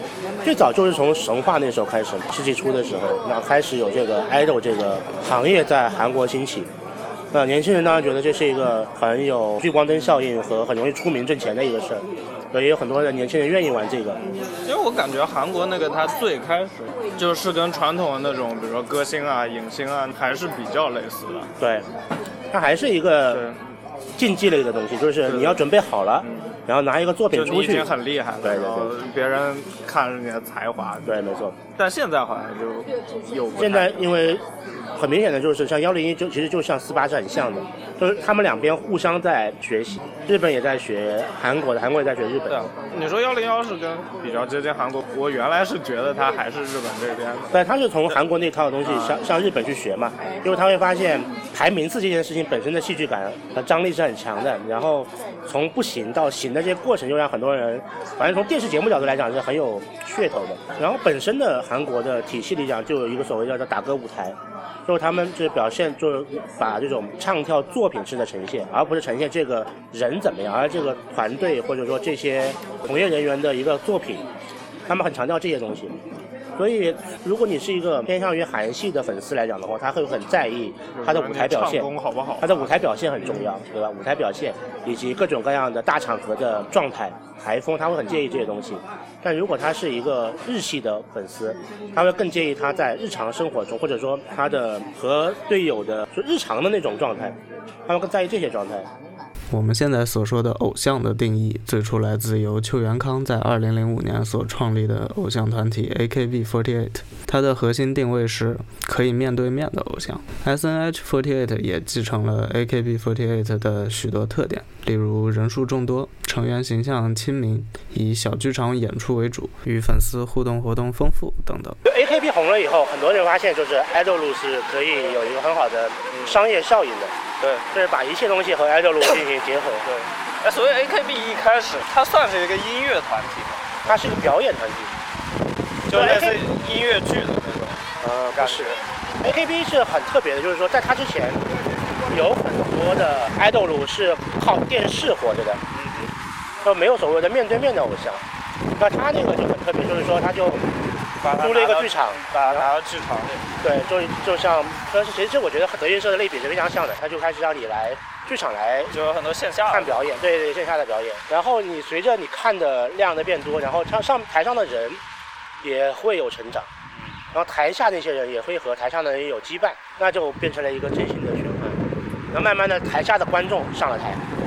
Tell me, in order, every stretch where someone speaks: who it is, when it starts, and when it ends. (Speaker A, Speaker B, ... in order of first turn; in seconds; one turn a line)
Speaker A: 0.4-6.7
Speaker A: 7.3-14.2
Speaker B: 14.6-21.5
Speaker A: 21.6-21.9
Speaker A: 22.5-23.4
Speaker B: 23.3-23.6
Speaker A: 24.2-27.9
Speaker B: 25.2-25.6
Speaker B: 26.2-26.5
Speaker B: 27.3-31.1
Speaker A: 28.4-28.9
Speaker A: 31.0-31.6
Speaker B: 31.8-34.1
Speaker A: 33.6-34.4
Speaker A: 35.0-42.7
Speaker B: 42.5-47.5
Speaker A: 47.5-74.3
Speaker B: 48.8-49.2
Speaker A: 74.9-76.0
Speaker A: 76.6-98.9
Speaker B: 80.9-83.5
Speaker C: 99.5-121.8
Speaker A: 121.8-127.1
Speaker B: 127.4-127.7
Speaker A: 127.7-129.8
Speaker B: 129.8-133.7
Speaker A: 133.8-134.9
Speaker B: 135.9-138.8
Speaker A: 135.9-136.4
Speaker A: 138.0-141.4
Speaker A: 142.1-145.6
Speaker B: 145.7-146.1
Speaker A: 146.6-148.2
Speaker A: 148.8-150.8
Speaker B: 151.2-153.4
Speaker A: 151.3-152.7
Speaker A: 153.6-158.9
Speaker B: 158.9-160.0
Speaker A: 159.7-165.0
Speaker A: 165.6-166.7
Speaker A: 167.3-174.2